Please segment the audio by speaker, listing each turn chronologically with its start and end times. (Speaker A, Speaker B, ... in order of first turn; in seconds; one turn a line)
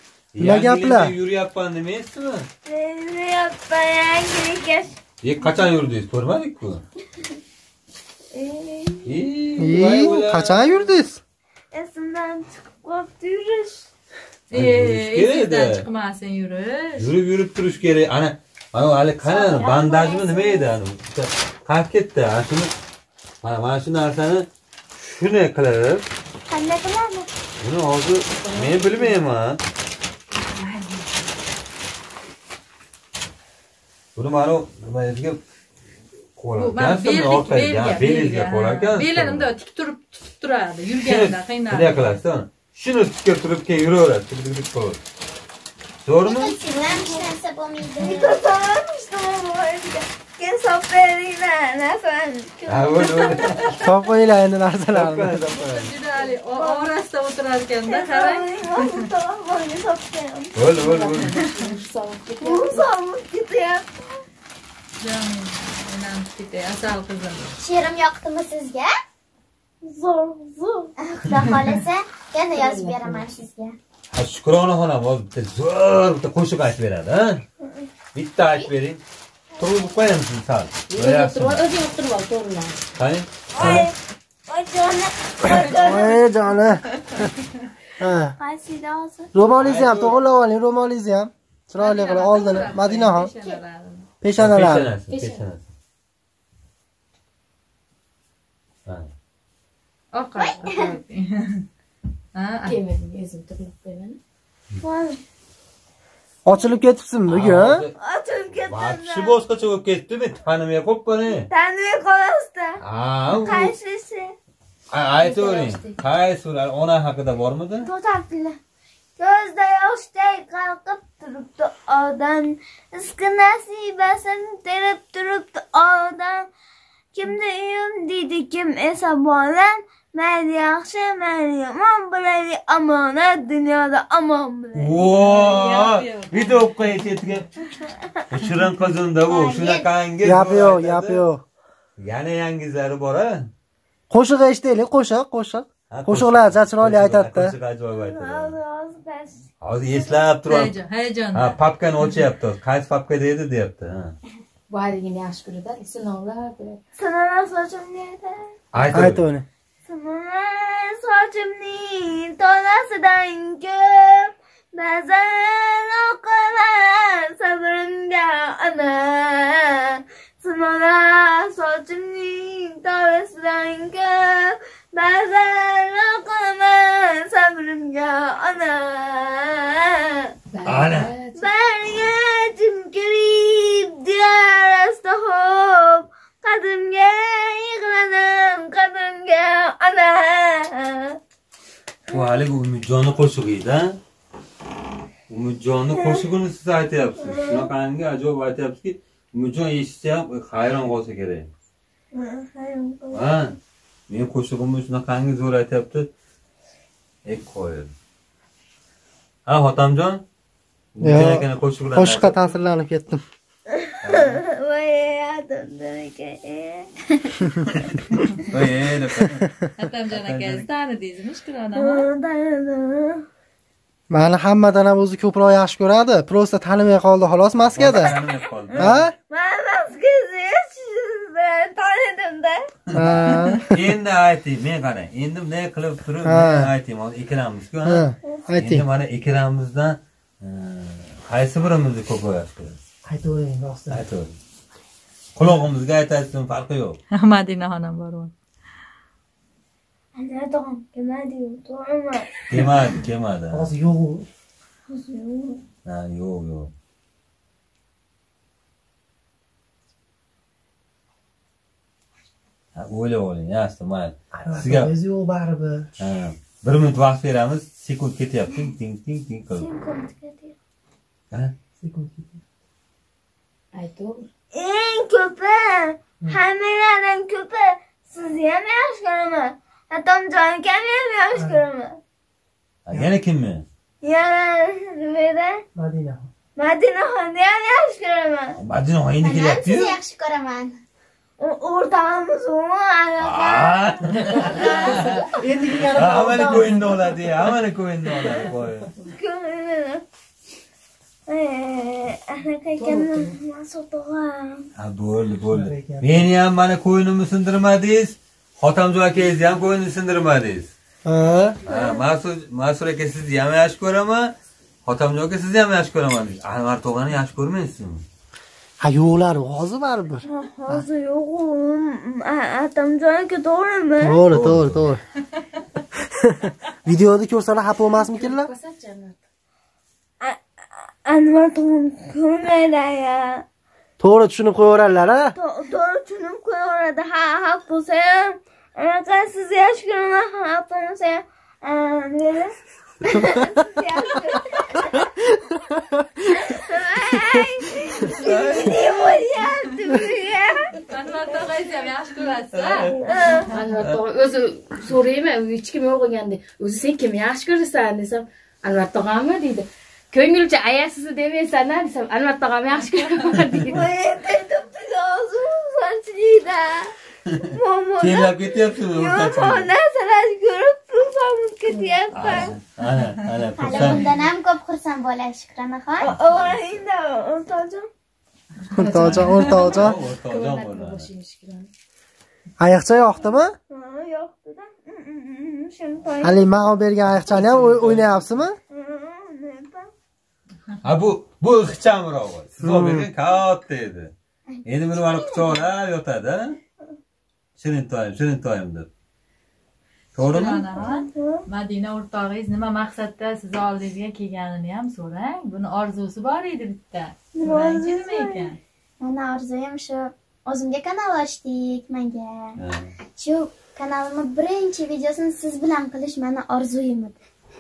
Speaker A: 0.3-2.5
Speaker B: 0.4-1.1
Speaker C: 2.7-5.0
Speaker A: 5.2-6.8
Speaker C: 8.3-9.2
Speaker A: 9.1-10.9
Speaker B: 9.6-11.2
Speaker C: 11.7-13.9
Speaker D: 14.5-17.1
Speaker A: 14.5-15.9
Speaker A: 17.0-22.7
Speaker E: 19.3-20.5
Speaker C: 19.8-20.6
Speaker A: 23.4-26.1
Speaker E: 26.5-27.3
Speaker A: 27.6-29.6
Speaker F: 28.4-29.2
Speaker A: 34.2-35.4
Speaker A: 36.4-39.5
Speaker D: 36.5-42.2
Speaker A: 41.0-45.0
Speaker A: 46.0-46.6
Speaker E: 46.2-48.4
Speaker C: 48.0-53.9
Speaker A: 52.7-53.9
Speaker B: 53.8-55.4
Speaker A: 54.9-55.9
Speaker D: 55.5-59.1
Speaker C: 56.5-56.9
Speaker C: 57.9-60.5
Speaker A: 60.5-61.3
Speaker F: 60.7-62.9
Speaker C: 62.4-64.2
Speaker D: 65.0-67.6
Speaker E: 67.6-68.9
Speaker C: 69.8-70.9
Speaker E: 71.0-73.8
Speaker F: 72.5-73.3
Speaker A: 74.1-77.5
Speaker C: 77.6-77.9
Speaker A: 78.1-79.0
Speaker A: 79.6-81.6
Speaker F: 80.9-82.8
Speaker A: 83.0-83.9
Speaker C: 83.5-84.0
Speaker C: 84.5-86.2
Speaker B: 85.5-87.3
Speaker D: 85.6-85.9
Speaker B: 88.0-88.3
Speaker C: 88.4-89.3
Speaker B: 89.3-93.3
Speaker A: 89.5-90.2
Speaker D: 91.8-94.1
Speaker B: 94.2-94.9
Speaker A: 94.4-95.7
Speaker F: 95.1-95.4
Speaker D: 100.1-101.7
Speaker E: 100.4-100.9
Speaker D: 102.3-102.8
Speaker F: 102.7-104.2
Speaker C: 104.8-105.2
Speaker B: 106.5-107.8
Speaker A: 107.3-108.0
Speaker C: 108.0-109.4
Speaker A: 108.5-111.5
Speaker C: 111.5-112.8
Speaker A: 112.8-113.8
Speaker C: 113.3-114.3
Speaker A: 114.9-117.9
Speaker F: 115.2-116.0
Speaker C: 117.8-118.6
Speaker C: 119.2-126.5
Speaker C: 127.1-134.9
Speaker A: 134.8-137.8
Speaker D: 135.0-136.7
Speaker C: 137.8-138.2
Speaker A: 138.3-141.2
Speaker E: 139.3-139.9
Speaker B: 140.2-141.4
Speaker A: 142.0-143.5
Speaker B: 144.1-147.5
Speaker A: 145.9-148.6
Speaker C: 148.0-150.2
Speaker A: 149.6-150.8
Speaker D: 150.4-151.6
Speaker A: 151.3-154.2
Speaker F: 154.7-156.8
Speaker C: 157.0-158.5
Speaker A: 158.7-159.3
Speaker B: 158.9-159.5
Speaker C: 159.9-180.3
Speaker F: 180.5-181.5
Speaker A: 180.7-181.1
Speaker C: 181.4-191.2
Speaker A: 192.1-194.0
Speaker A: 195.3-201.5
Speaker C: 195.9-196.3
Speaker C: 197.2-197.7
Speaker C: 202.1-203.4
Speaker A: 203.1-203.6
Speaker A: 204.1-206.1
Speaker A: 207.3-207.9
Speaker A: 209.5-210.2
Speaker A: 210.9-212.6
Speaker B: 211.0-213.2
Speaker C: 213.7-217.5
Speaker A: 214.0-214.4
Speaker A: 218.5-220.7
Speaker D: 219.8-222.1
Speaker C: 221.8-223.3
Speaker B: 224.1-228.1
Speaker A: 227.7-229.1
Speaker C: 227.9-232.7
Speaker B: 228.8-229.1
Speaker A: 232.9-238.1
Speaker B: 232.9-233.6
Speaker B: 236.2-236.7
Speaker B: 237.8-238.8
Speaker C: 238.2-238.5
Speaker A: 238.6-242.8
Speaker B: 243.0-244.1
Speaker A: 243.9-244.3
Speaker A: 245.3-247.0
Speaker D: 247.1-248.3
Speaker C: 250.2-252.6
Speaker A: 252.5-253.7
Speaker B: 253.5-254.3
Speaker C: 254.9-255.6
Speaker A: 255.8-256.7
Speaker A: 262.8-264.9
Speaker B: 264.3-265.9
Speaker A: 266.0-269.7
Speaker C: 269.6-270.6
Speaker B: 271.8-272.4
Speaker F: 273.7-274.3
Speaker C: 274.5-282.0
Speaker B: 281.3-281.6
Speaker A: 282.9-283.7
Speaker C: 284.0-285.6
Speaker B: 285.8-286.3
Speaker C: 286.6-288.6
Speaker A: 288.6-290.0
Speaker E: 289.2-290.8
Speaker C: 291.4-295.3
Speaker A: 293.2-295.3
Speaker B: 294.7-296.9
Speaker A: 295.9-298.9
Speaker C: 299.1-300.1
Speaker C: 301.3-304.7
Speaker B: 302.8-303.4
Speaker A: 304.8-310.7
Speaker B: 305.5-306.3
Speaker B: 311.1-311.6
Speaker A: 311.7-318.1
Speaker C: 311.7-312.1
Speaker B: 318.8-320.9
Speaker C: 320.2-324.2
Speaker B: 324.0-325.0
Speaker A: 324.3-324.9
Speaker B: 326.1-328.5
Speaker F: 327.9-329.2
Speaker C: 331.1-333.4
Speaker B: 334.0-335.4
Speaker C: 335.4-345.1
Speaker C: 346.3-350.8
Speaker A: 348.1-349.2
Speaker D: 350.9-353.7
Speaker C: 351.4-351.7
Speaker A: 352.5-353.0
Speaker C: 353.0-353.5
Speaker F: 353.5-363.9
Speaker C: 363.7-366.9
Speaker C: 367.5-372.6
Speaker A: 368.0-369.7
Speaker F: 371.7-372.3
Speaker A: 372.1-374.1
Speaker E: 373.6-376.4
Speaker C: 376.0-377.9
Speaker B: 378.7-380.0
Speaker F: 378.7-381.7
Speaker A: 379.0-381.1
Speaker B: 382.6-383.5
Speaker C: 383.7-386.4
Speaker B: 386.2-388.6
Speaker A: 387.3-388.5
Speaker C: 388.7-389.9
Speaker A: 390.8-394.1
Speaker B: 392.6-393.1
Speaker E: 394.5-395.6
Speaker A: 394.6-396.6
Speaker A: 397.6-398.9
Speaker A: 400.1-400.8
Speaker D: 400.2-408.6
Speaker C: 400.8-401.4
Speaker C: 407.4-408.5
Speaker E: 409.0-412.6
Speaker A: 412.6-413.0
Speaker E: 413.2-417.2